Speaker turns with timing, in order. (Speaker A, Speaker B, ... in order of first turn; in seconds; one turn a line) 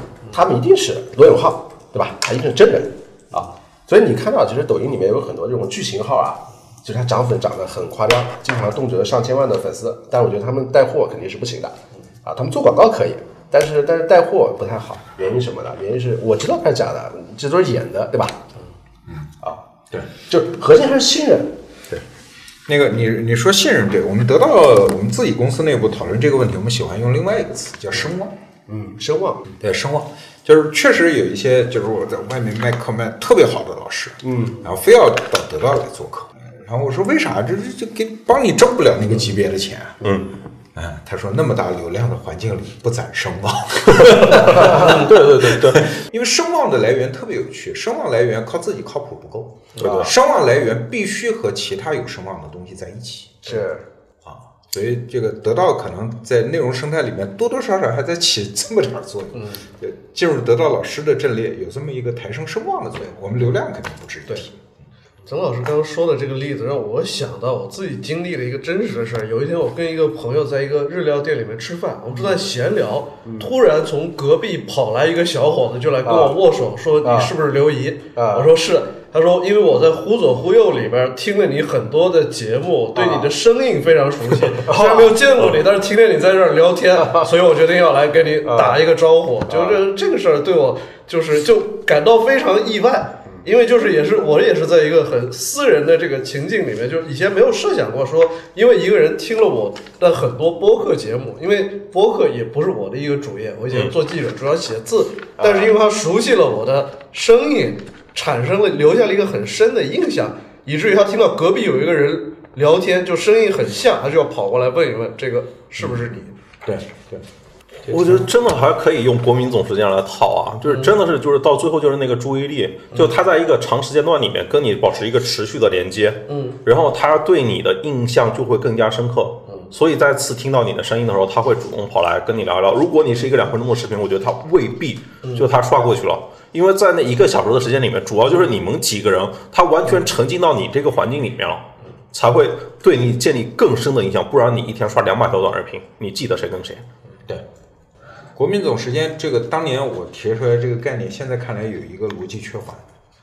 Speaker A: 0.3-18.4
Speaker A: 20.2-21.5
Speaker B: 22.7-28.4
Speaker A: 28.7-29.4
Speaker B: 29.6-40.1
Speaker A: 34.2-34.6
Speaker C: 40.0-40.3
Speaker B: 40.8-53.6
Speaker C: 43.9-45.9
Speaker C: 49.8-50.1
Speaker A: 49.8-50.1
Speaker A: 53.5-53.8
Speaker B: 54.2-64.6
Speaker D: 65.3-116.3
Speaker A: 73.2-73.5
Speaker A: 76.0-76.4
Speaker A: 77.0-77.3
Speaker A: 78.2-78.5
Speaker A: 83.0-83.3
Speaker A: 84.6-85.2
Speaker C: 85.4-85.6
Speaker A: 88.5-88.8
Speaker A: 89.5-89.8
Speaker C: 103.7-104.0
Speaker A: 105.4-105.7
Speaker B: 115.8-117.3
Speaker B: 117.9-118.2
Speaker C: 117.9-146.8
Speaker D: 120.7-121.0
Speaker D: 126.3-126.6
Speaker B: 148.3-152.8